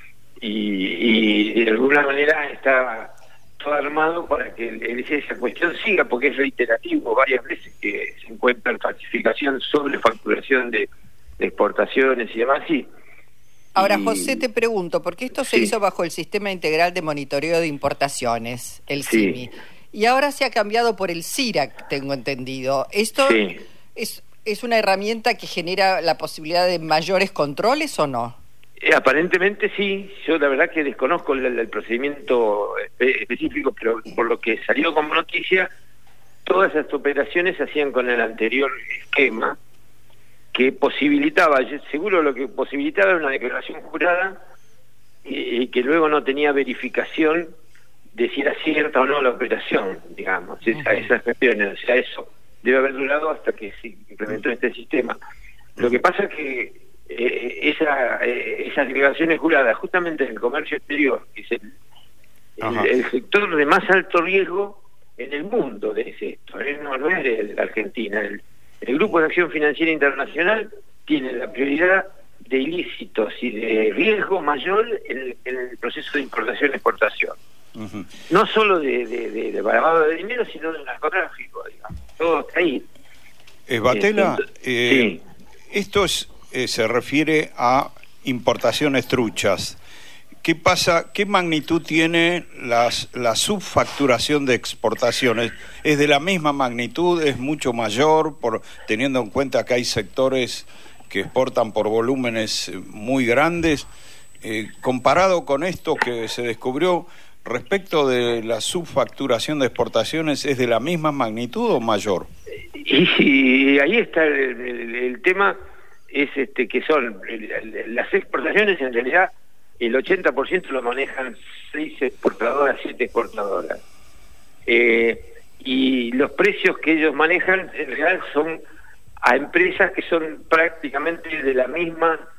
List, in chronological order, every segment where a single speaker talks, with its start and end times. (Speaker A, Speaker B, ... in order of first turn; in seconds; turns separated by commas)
Speaker A: 0.4-10.9, Speaker A: 11.4-12.9, Speaker B: 13.8-23.4, Speaker A: 13.8-14.4, Speaker A: 19.0-19.4, Speaker A: 23.2-23.6, Speaker B: 23.9-28.4, Speaker A: 28.8-35.7, Speaker A: 36.4-39.6, Speaker A: 40.5-44.4, Speaker A: 45.2-47.5, Speaker A: 48.1-55.2, Speaker B: 50.7-51.0, Speaker A: 55.8-61.6, Speaker A: 62.6-77.3, Speaker C: 62.6-62.9, Speaker C: 77.7-78.1, Speaker A: 78.3-82.8, Speaker C: 83.7-85.2, Speaker A: 83.9-85.2, Speaker C: 85.7-89.8, Speaker C: 90.4-103.9, Speaker C: 104.4-112.3, Speaker A: 112.7-115.5, Speaker A: 116.1-123.8, Speaker A: 124.7-128.6, Speaker A: 129.2-132.2